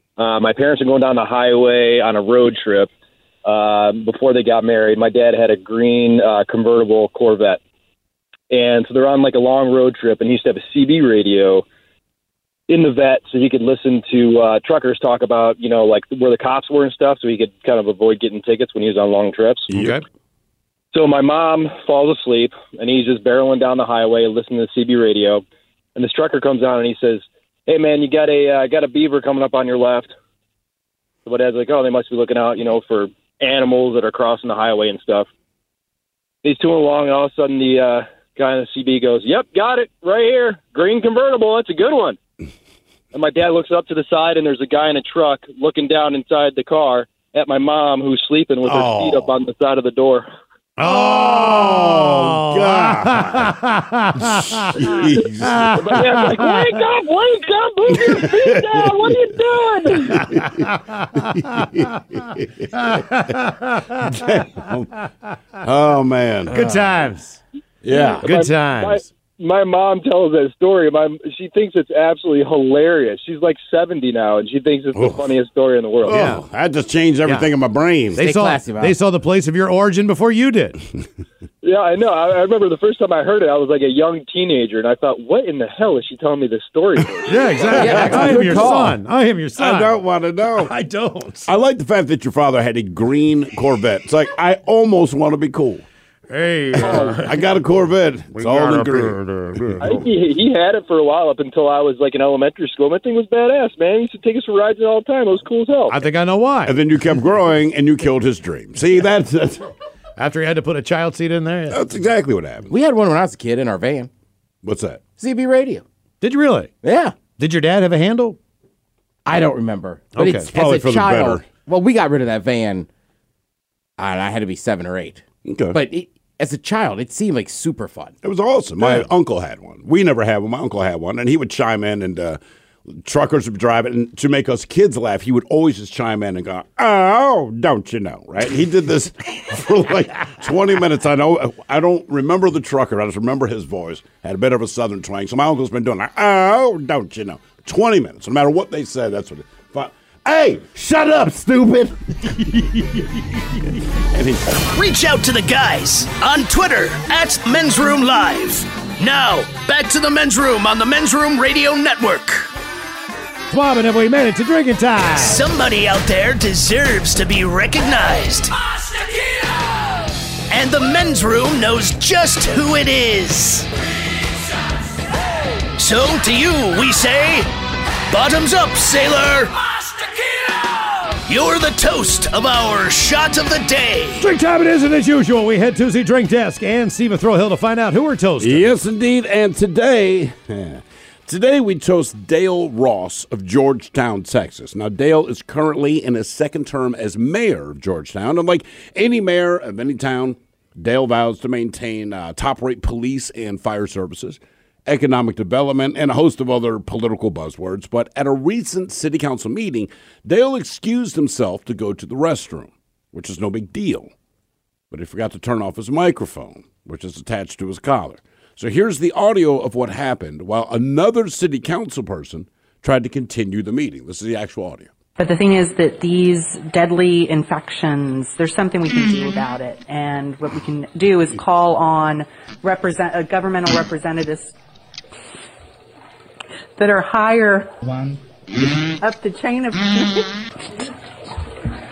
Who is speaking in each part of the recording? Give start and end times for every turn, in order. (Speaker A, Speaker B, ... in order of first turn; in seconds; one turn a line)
Speaker A: 0.2-2.9
Speaker A: 3.4-7.6
Speaker A: 8.5-11.7
Speaker A: 12.7-19.6
Speaker B: 19.7-20.0
Speaker A: 20.9-25.4
Speaker A: 25.9-30.1
Speaker A: 31.2-35.3
Speaker A: 36.4-42.2
Speaker A: 43.1-50.2
Speaker C: 48.6-49.3
Speaker B: 50.8-56.2
Speaker C: 50.8-53.5
Speaker C: 54.2-56.4
Speaker A: 55.7-60.2
Speaker C: 57.9-59.2
Speaker C: 59.9-62.9
Speaker B: 60.2-61.2
Speaker B: 62.7-64.1
Speaker C: 64.0-65.0
Speaker C: 65.6-67.0
Speaker B: 66.5-67.4
Speaker C: 67.8-68.4
Speaker A: 67.9-76.2
Speaker B: 68.2-69.1
Speaker C: 74.9-75.3
Speaker C: 76.0-78.2
Speaker B: 76.1-76.4
Speaker B: 77.2-77.5
Speaker B: 78.1-80.8
Speaker D: 78.2-78.9
Speaker A: 81.6-87.5
Speaker B: 87.2-90.0
Speaker C: 87.7-88.5
Speaker D: 87.7-89.0
Speaker C: 89.6-90.7
Speaker B: 90.5-91.5
Speaker C: 91.4-95.8
Speaker B: 96.3-97.5
Speaker C: 96.8-99.2
Speaker B: 98.3-100.1
Speaker C: 99.7-100.0
Speaker A: 99.8-106.0
Speaker B: 105.9-106.8
Speaker C: 106.7-109.7
Speaker B: 110.2-111.8
Speaker C: 111.7-112.7
Speaker D: 112.7-114.1
Speaker C: 114.6-115.0
Speaker D: 115.2-115.8
Speaker B: 116.2-116.7
Speaker D: 116.8-117.2
Speaker B: 117.4-118.4
Speaker D: 119.2-122.9
Speaker B: 120.1-120.5
Speaker C: 120.5-121.5
Speaker D: 124.0-128.1
Speaker C: 125.5-125.8
Speaker C: 128.2-154.6
Speaker B: 128.8-129.1
Speaker E: 154.6-162.5
Speaker B: 163.5-165.4
Speaker E: 165.1-168.5
Speaker E: 170.5-173.7
Speaker E: 175.8-177.5
Speaker E: 178.1-179.6
Speaker E: 181.1-184.3
Speaker B: 184.2-188.7
Speaker C: 188.4-214.1
Speaker C: 214.9-224.9
Speaker F: 225.2-234.5
Speaker F: 236.8-238.1
Speaker F: 239.0-240.3